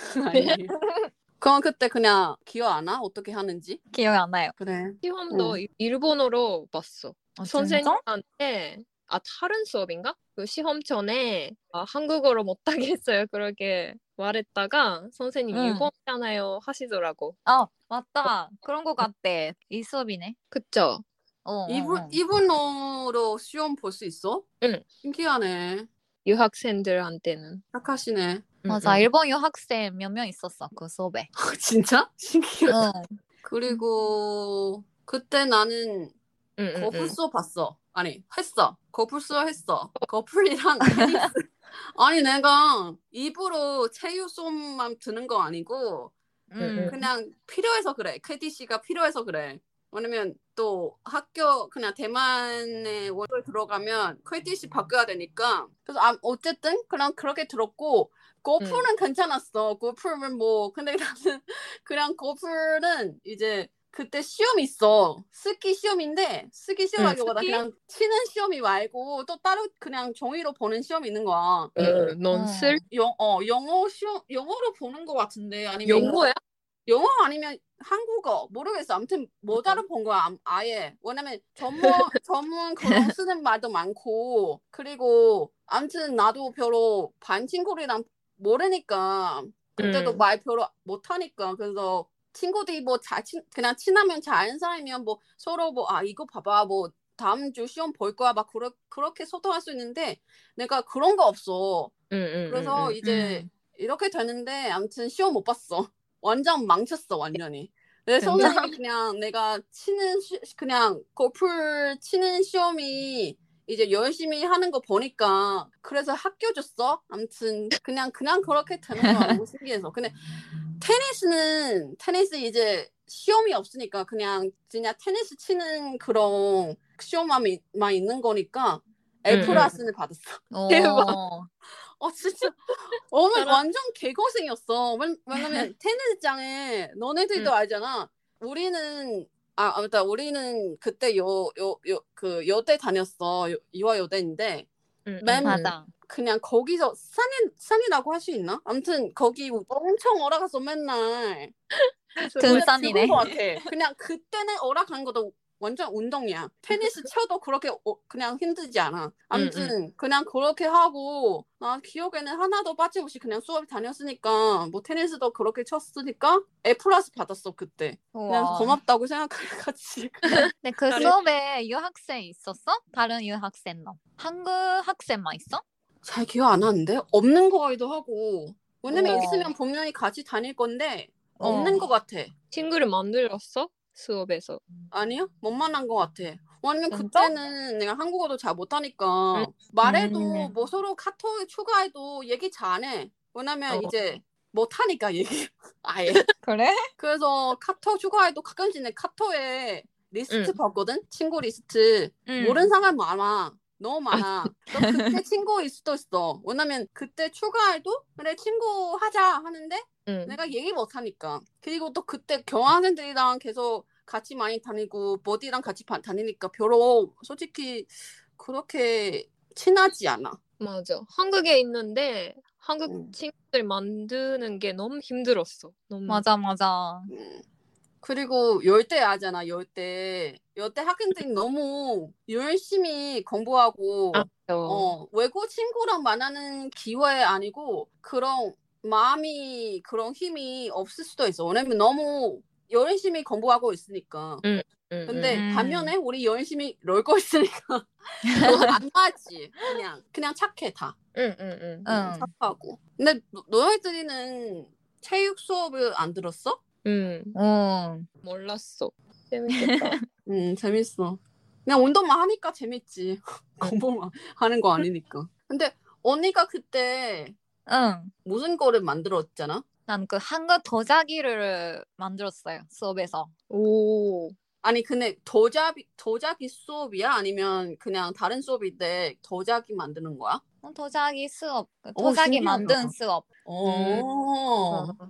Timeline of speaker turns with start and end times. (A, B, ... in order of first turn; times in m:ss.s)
0:00.1-0:00.7 A
0:00.7-0:01.1 B
0:01.4-0:03.8 A
0:03.9-0:04.6 B
0:04.6-0:05.6 A
0:05.0-0:17.4 C
0:07.4-0:08.0 B
0:15.5-0:15.9 B
0:17.4-0:20.4 B
0:20.5-0:21.0 C
0:21.4-0:22.2 B
0:21.7-0:24.5 A
0:25.0-0:25.9 A
0:26.2-0:27.6 C
0:27.7-0:28.5 A
0:28.6-0:29.1 C
0:28.7-0:31.3 B
0:31.4-0:32.8 A
0:32.7-0:33.1 B
0:33.4-0:36.2 A
0:36.6-0:37.2 C
0:36.8-0:41.4 A
0:40.8-0:41.3 B
0:42.0-0:46.2 A
0:46.5-0:47.1 B
0:46.6-0:47.0 C
0:46.9-1:11.8 A
0:58.6-0:58.9 C
1:07.0-1:07.6 C
1:11.8-1:12.8 C
1:12.3-1:12.8 B
1:12.9-1:16.2 A
1:15.8-1:16.4 C
1:16.9-1:41.9 A
1:19.6-1:19.8 C
1:29.8-1:30.2 C
1:42.1-1:43.0 C
1:42.5-2:00.2 A
1:43.0-1:43.5 B
1:48.2-1:48.7 C
1:48.4-1:48.7 B
2:00.8-2:10.4 A
2:09.3-2:09.8 C
2:10.5-2:11.5 B
2:10.7-2:11.2 C
2:12.0-2:24.7 A
2:13.4-2:13.6 C
2:15.4-2:15.7 C
2:25.1-2:25.6 C
2:25.2-2:31.5 A
2:25.4-2:25.9 B
2:32.2-2:33.4 C
2:32.4-2:33.2 B
2:32.4-2:50.4 A
2:39.3-2:39.8 C
2:48.1-2:48.8 B
2:50.3-2:51.2 C
2:50.6-2:55.6 B
2:56.0-3:02.3 A
2:58.9-2:59.5 B
3:01.4-3:01.9 B
3:02.5-3:04.6 C
3:04.9-3:16.2 A
3:06.9-3:07.3 B
3:09.8-3:10.5 B
3:16.4-3:16.8 B
3:17.0-3:40.4 A
3:20.3-3:20.6 C
3:22.3-3:22.7 B
3:24.1-3:24.5 C
3:24.8-3:25.1 B
3:30.1-3:30.4 C
3:40.6-3:46.2 C
3:42.9-3:43.1 A
3:46.1-3:47.1 B
3:47.1-3:47.4 A
3:48.0-4:04.5 A
3:54.1-3:54.9 C
4:04.4-4:05.4 C
4:05.1-4:11.0 A
4:05.1-4:05.9 B
4:08.3-4:08.7 B
4:11.2-4:11.9 C
4:11.9-4:12.3 B
4:11.9-4:16.6 A
4:16.8-4:17.4 C
4:17.4-4:18.1 B
4:18.2-4:20.0 C
4:20.3-4:27.4 A
4:27.7-4:28.1 B
4:28.2-4:29.6 A
4:29.9-4:33.3 B
4:33.5-4:34.4 C
4:34.6-4:40.4 A
4:40.6-4:44.1 B
4:42.0-4:42.9 A
4:43.4-4:45.0 A
4:44.7-4:45.0 C